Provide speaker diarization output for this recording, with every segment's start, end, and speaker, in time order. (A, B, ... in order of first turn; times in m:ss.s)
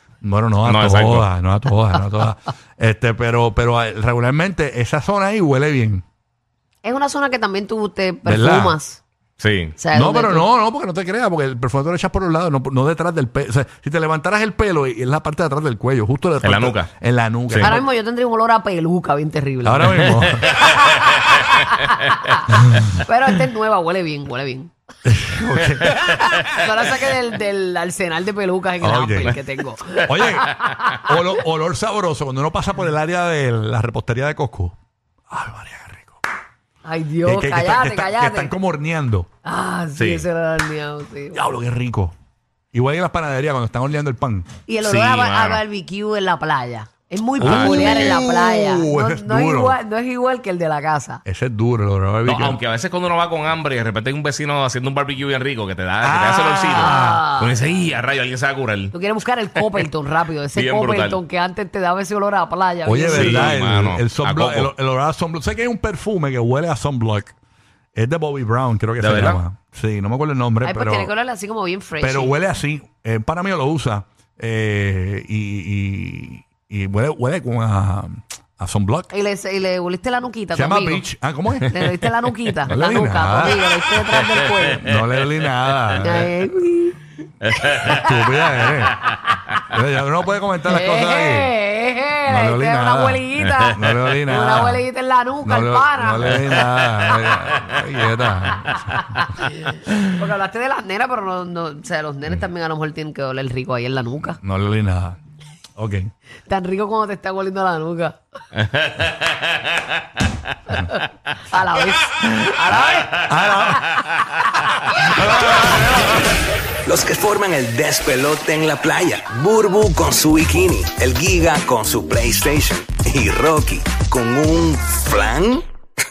0:00.2-0:06.0 A
0:00.6-0:01.2 B
0:06.8-0:09.0 C
0:08.2-0:08.8 A
0:09.4-0:09.8 B
0:09.8-0:10.5 C
0:09.9-0:17.8 A
0:16.4-0:16.9 B
0:17.6-0:24.7 C
0:19.6-0:20.5 A
0:20.4-0:21.9 B
0:25.0-0:26.0 A
0:26.1-0:31.1 C
0:28.8-0:29.4 A
0:30.0-0:34.8 A
0:35.3-0:36.2 A
0:36.8-0:38.5 C
0:37.2-0:39.3 A
0:39.4-0:41.4 C
0:40.0-0:40.2 B
0:41.3-0:42.1 A
0:42.7-0:44.5 A
0:44.6-0:51.2 C
0:44.8-0:45.6 B
0:47.4-0:49.8 A
0:47.4-0:48.2 B
0:51.2-0:52.6 A
0:52.2-0:58.9 B
0:56.0-0:57.2 A
0:56.7-0:57.5 C
0:58.9-1:03.6 C
1:00.5-1:01.2 B
1:02.8-1:07.4 A
1:03.1-1:04.7 B
1:08.0-1:11.1 A
1:09.0-1:09.4 B
1:10.6-1:12.4 C
1:12.0-1:19.1 A
1:19.1-1:21.0 C
1:20.5-1:21.7 A
1:21.7-1:24.8 C
1:22.7-1:23.6 A
1:24.7-1:26.3 A
1:26.0-1:27.0 C
1:27.4-1:28.0 B
1:28.0-1:29.1 A
1:29.7-1:31.5 A
1:30.7-1:37.3 C
1:32.3-1:34.9 A
1:35.4-1:39.0 A
1:36.2-1:36.6 B
1:37.7-1:38.1 B
1:38.9-1:44.4 C
1:44.4-1:45.2 A
1:45.8-1:46.1 A
1:46.5-1:48.2 C
1:48.6-1:50.3 B
1:50.7-1:53.3 C
1:53.2-1:53.9 A
1:55.2-1:56.0 A
1:56.9-2:05.6 D